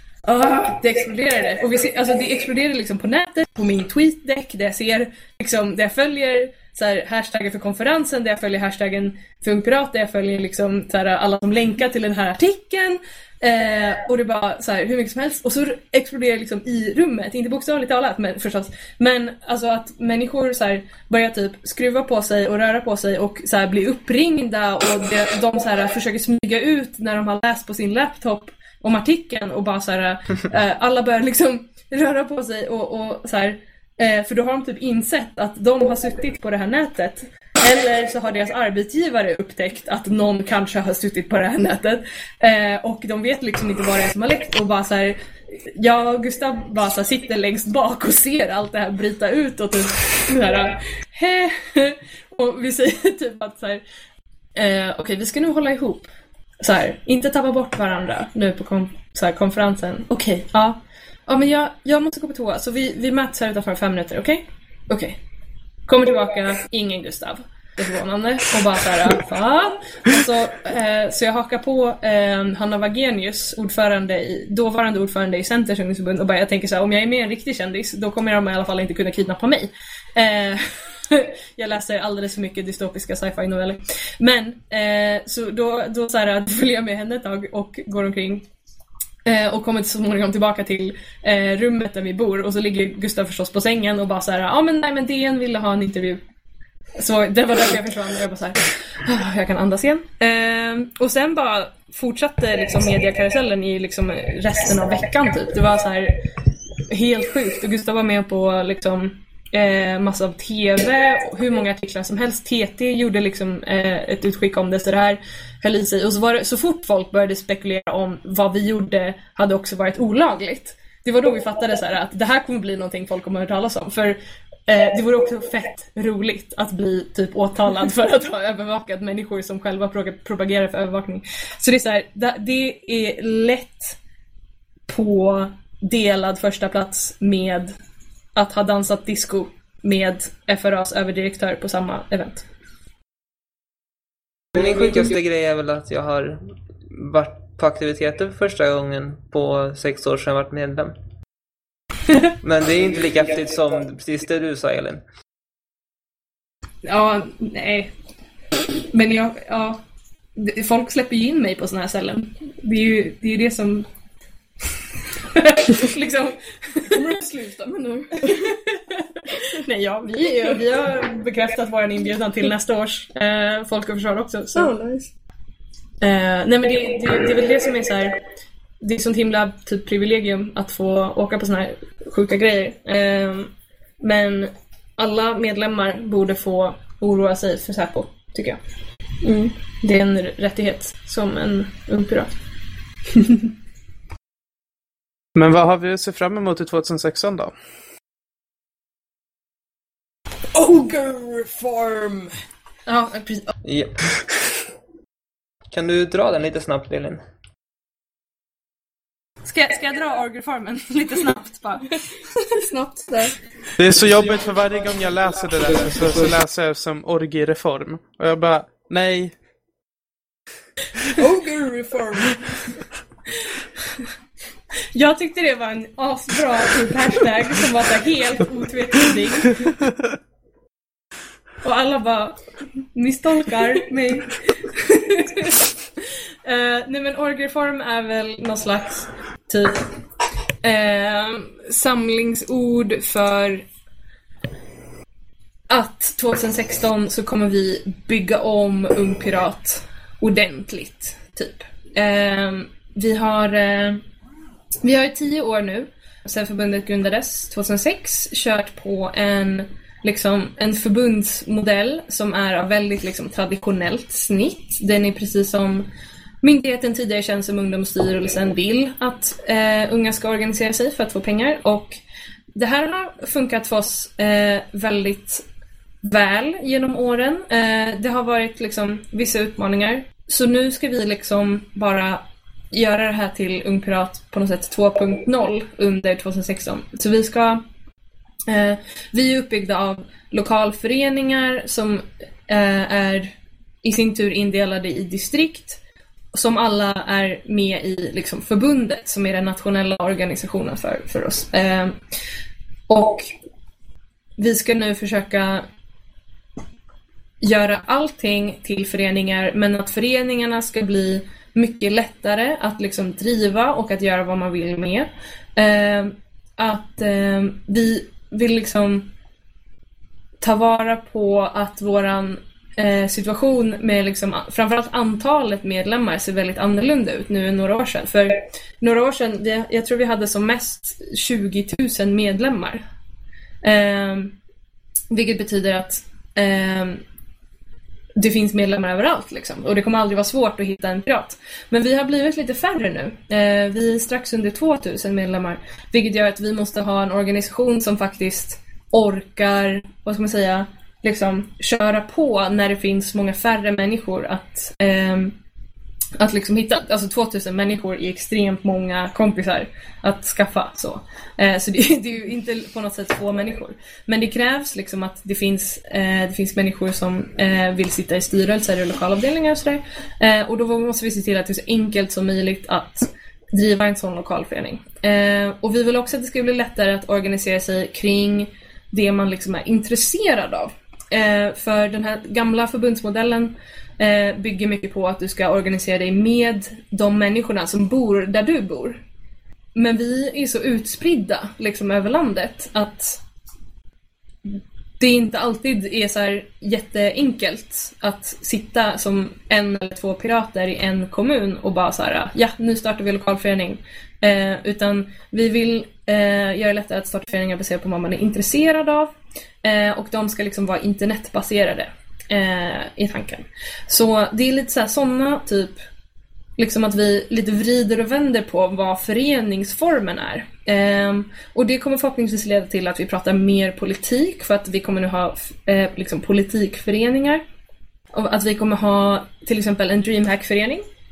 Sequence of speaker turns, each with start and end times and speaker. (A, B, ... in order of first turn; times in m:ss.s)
0:00.2-0:53.8 A
0:54.5-0:56.1 A
0:56.6-1:05.2 A
1:05.9-1:28.4 A
1:29.2-1:36.2 A
1:37.0-1:46.2 A
1:46.9-2:14.0 A
2:14.9-2:17.7 A
2:18.3-2:22.4 A
2:24.5-2:30.9 B
2:32.4-2:35.0 B
2:36.8-2:37.9 A
2:38.9-2:39.8 A
2:40.4-2:43.9 A
2:45.3-2:47.0 A
2:46.9-2:48.6 C
2:48.4-2:54.7 A
2:54.5-2:55.1 C
2:56.0-2:58.2 A
2:58.8-3:08.6 A
3:09.2-3:09.5 C
3:09.8-3:12.3 A
3:13.2-3:13.4 A
3:15.3-3:17.5 D
3:20.5-3:22.3 C
3:22.9-3:23.6 A
3:23.6-3:24.2 B
3:25.7-3:27.2 B
3:29.4-3:32.0 A
3:32.5-3:33.4 C
3:33.8-3:39.3 D
3:41.2-3:42.6 C
3:44.9-3:49.7 A
3:51.6-3:52.4 A
3:52.9-3:59.8 A
4:00.6-4:03.6 A
4:05.7-4:14.0 A
4:14.8-4:25.9 A
4:26.4-4:32.0 A
4:32.5-4:35.4 A
4:36.0-4:47.6 A
4:48.5-4:55.8 A
4:56.3-5:02.0 A
5:02.9-5:03.3 A
5:04.4-5:05.7 A
5:07.4-5:19.1 A
5:20.4-5:32.8 A
5:33.6-5:34.3 A
5:35.1-5:37.0 A
5:38.2-5:55.4 A
5:56.2-6:29.0 A
6:29.7-6:33.2 A
6:34.4-6:49.1 A
6:49.6-6:55.8 A
6:56.6-7:07.4 A
7:08.1-7:10.8 A